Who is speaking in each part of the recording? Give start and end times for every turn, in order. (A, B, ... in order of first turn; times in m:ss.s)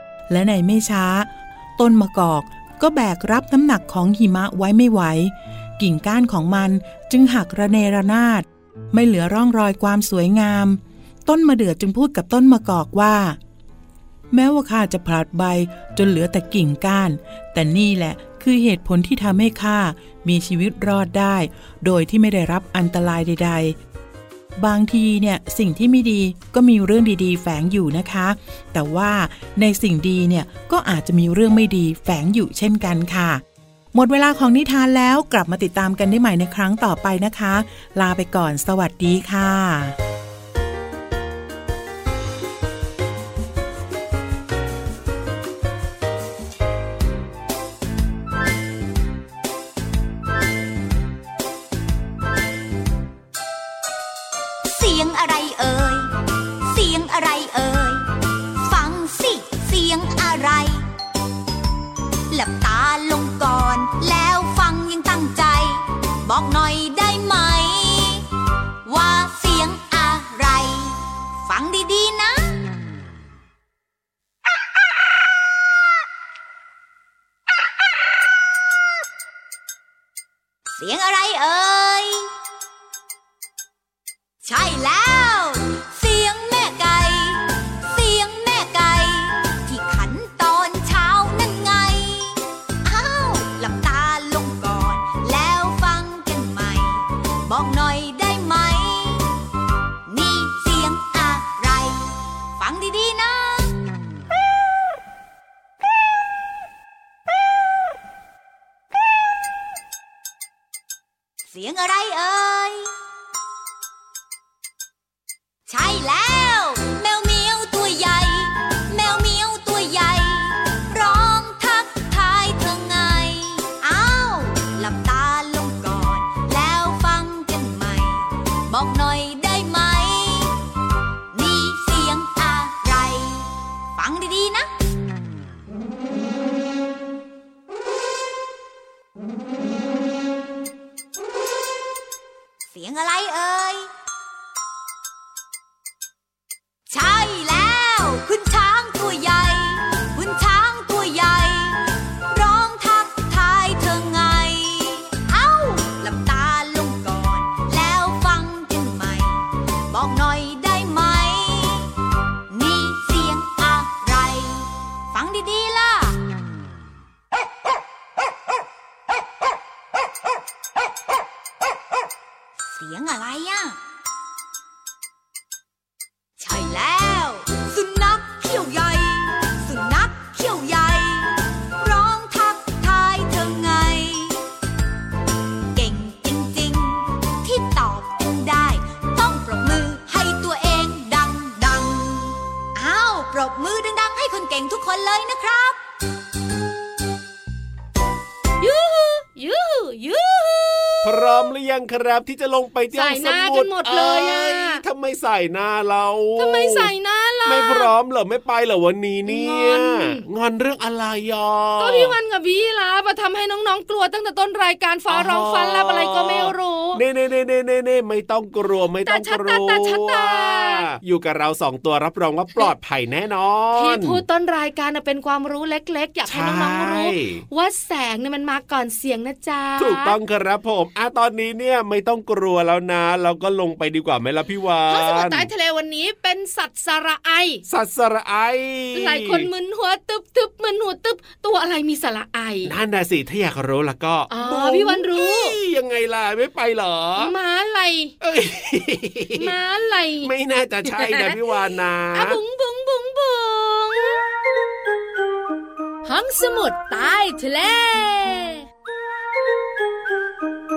0:00.3-0:13.4 A
0:14.3-0:23.8 A
0:24.6-0:40.0 A
0:54.6-0:56.1 B
0:56.6-0:58.0 B
0:58.6-1:00.8 B
1:02.3-1:08.3 B
1:08.8-1:12.5 B
1:20.7-1:22.3 B
1:24.4-1:39.3 B
1:40.1-1:43.7 B
1:51.5-1:52.9 B
1:55.7-2:10.5 B
2:11.3-2:14.7 B
2:22.7-2:23.9 B
2:26.9-2:41.9 B
2:42.5-2:46.2 B
2:52.6-2:53.8 B
2:56.4-3:04.4 B
3:05.7-3:15.8 B
3:18.6-3:21.4 C
3:21.0-3:26.9 D
3:22.9-3:24.8 C
3:26.4-3:27.9 C
3:27.4-3:32.1 D
3:29.2-3:30.2 C
3:31.8-3:37.0 C
3:35.1-3:44.2 D
3:39.0-3:40.9 C
3:43.7-3:50.2 C
3:46.3-3:47.4 D
3:49.8-3:55.5 D
3:54.9-3:57.6 C
3:57.6-3:59.5 D
3:58.9-4:02.7 C
4:02.6-4:07.3 D
4:04.3-4:05.5 C
4:07.2-4:08.1 C
4:08.2-4:09.5 D
4:09.4-4:10.3 C
4:10.2-4:12.4 D
4:10.9-4:11.2 C
4:12.1-4:14.2 C
4:16.0-4:18.6 C